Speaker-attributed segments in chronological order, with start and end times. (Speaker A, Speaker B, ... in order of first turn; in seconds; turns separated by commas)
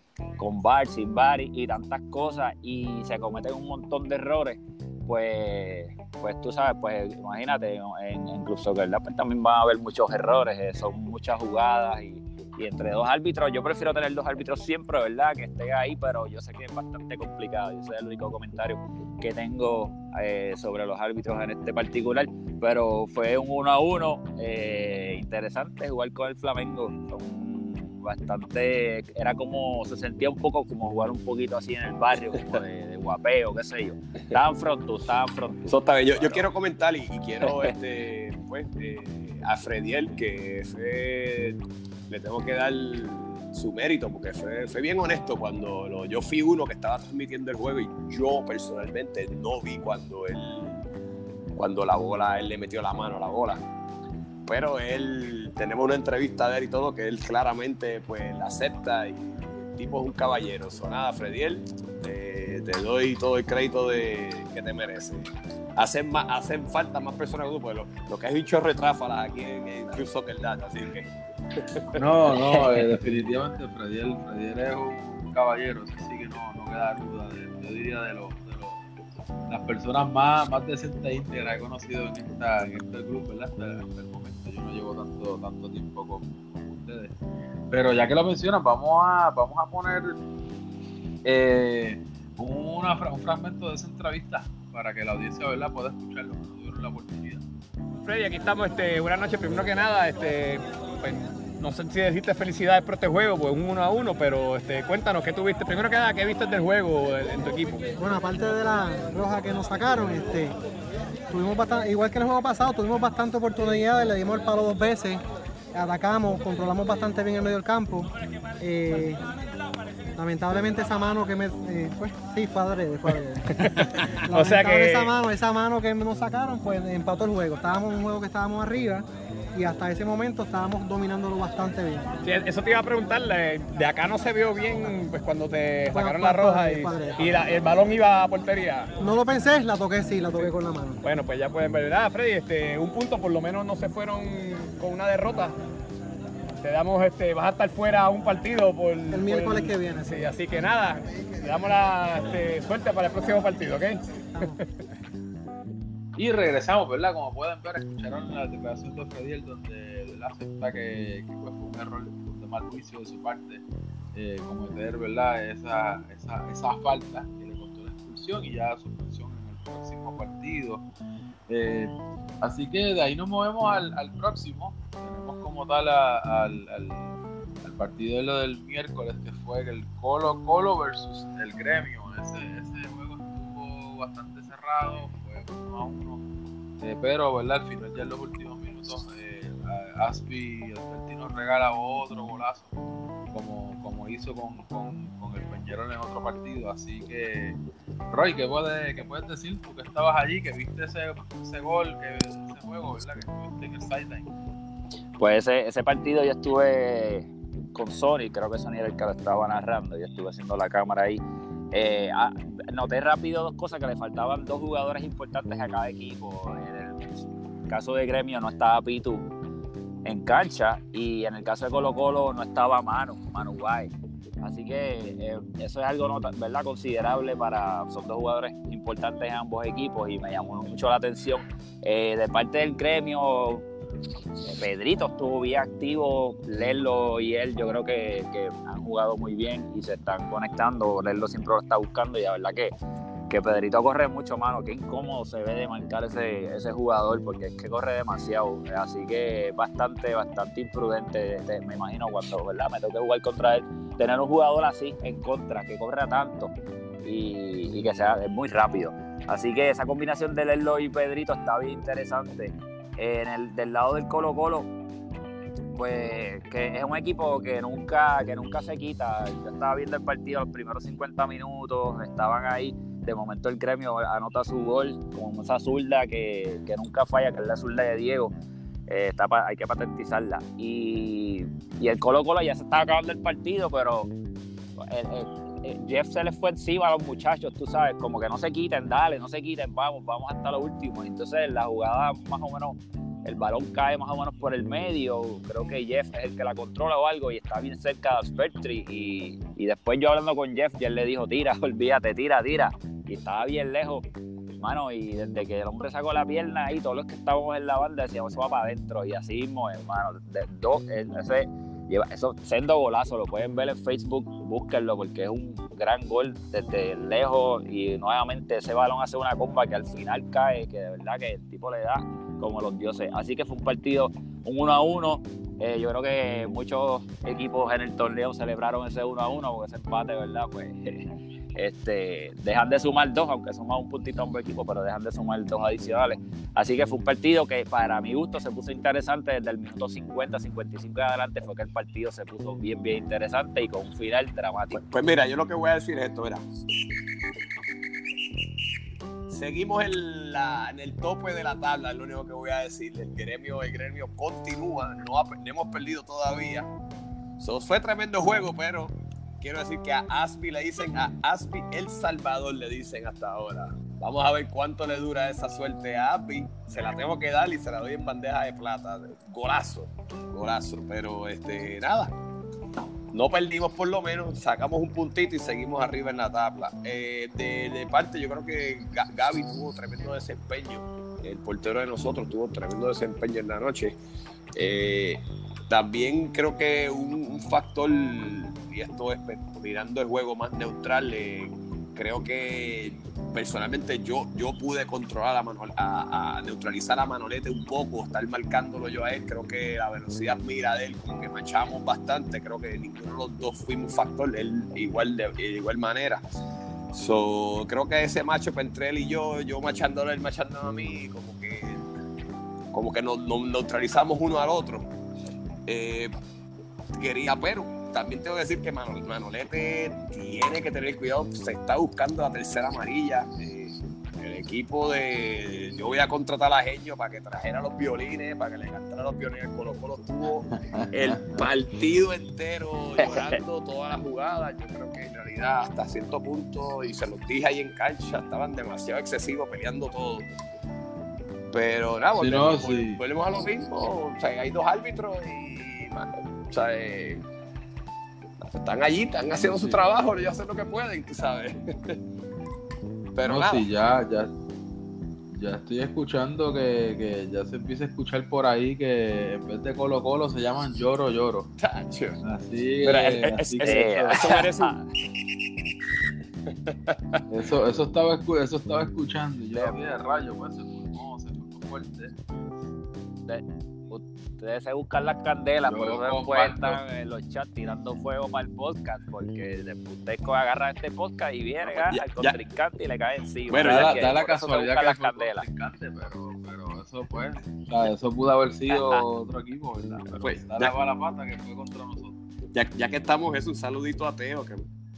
Speaker A: 0.4-36.4, Speaker B: 35.7-50.8, Speaker A: 37.4-37.7, Speaker B: 51.5-53.6, Speaker B: 54.5-72.0, Speaker C: 71.9-78.8, Speaker C: 79.5-87.1, Speaker C: 87.7-90.2, Speaker C: 91.2-97.4, Speaker D: 98.0-108.0, Speaker E: 108.0-110.6, Speaker E: 111.3-115.2, Speaker E: 115.8-119.2, Speaker E: 120.2-132.1, Speaker D: 123.5-125.1, Speaker D: 132.2-138.9, Speaker E: 135.9-137.3, Speaker E: 139.0-141.0, Speaker D: 140.4-145.6, Speaker D: 146.6-154.6, Speaker E: 149.1-150.1, Speaker C: 156.2-170.8, Speaker C: 171.5-186.2, Speaker C: 186.8-192.7, Speaker C: 193.3-197.6, Speaker C: 198.1-204.3, Speaker A: 205.2-217.2, Speaker A: 217.7-219.3, Speaker A: 220.1-223.9, Speaker A: 224.4-233.7, Speaker A: 234.4-242.7, Speaker A: 243.3-256.5, Speaker A: 257.0-264.7, Speaker A: 265.8-278.3, Speaker A: 278.9-284.1, Speaker A: 284.8-304.1, Speaker A: 304.6-344.8, Speaker B: 344.7-346.4, Speaker B: 349.3-356.7, Speaker B: 357.4-372.1, Speaker B: 373.1-384.0, Speaker B: 384.6-406.2, Speaker B: 406.9-411.8, Speaker B: 412.7-414.9, Speaker B: 415.7-416.1, Speaker B: 416.9-440.3, Speaker C: 430.5-431.5, Speaker A: 433.0-433.4, Speaker B: 441.5-447.2, Speaker C: 442.1-443.0, Speaker B: 448.6-452.0, Speaker C: 449.3-449.8, Speaker B: 453.2-453.7, Speaker C: 453.2-454.3, Speaker C: 455.3-461.5, Speaker B: 461.6-462.2, Speaker C: 462.2-464.2, Speaker B: 462.8-464.8, Speaker A: 463.6-464.8, Speaker B: 466.5-467.2, Speaker C: 467.3-472.2, Speaker A: 473.3-485.4, Speaker C: 475.7-476.8, Speaker B: 481.6-482.4, Speaker B: 483.5-483.9, Speaker C: 483.6-492.2, Speaker A: 488.7-489.0, Speaker B: 490.2-490.7, Speaker B: 492.5-494.7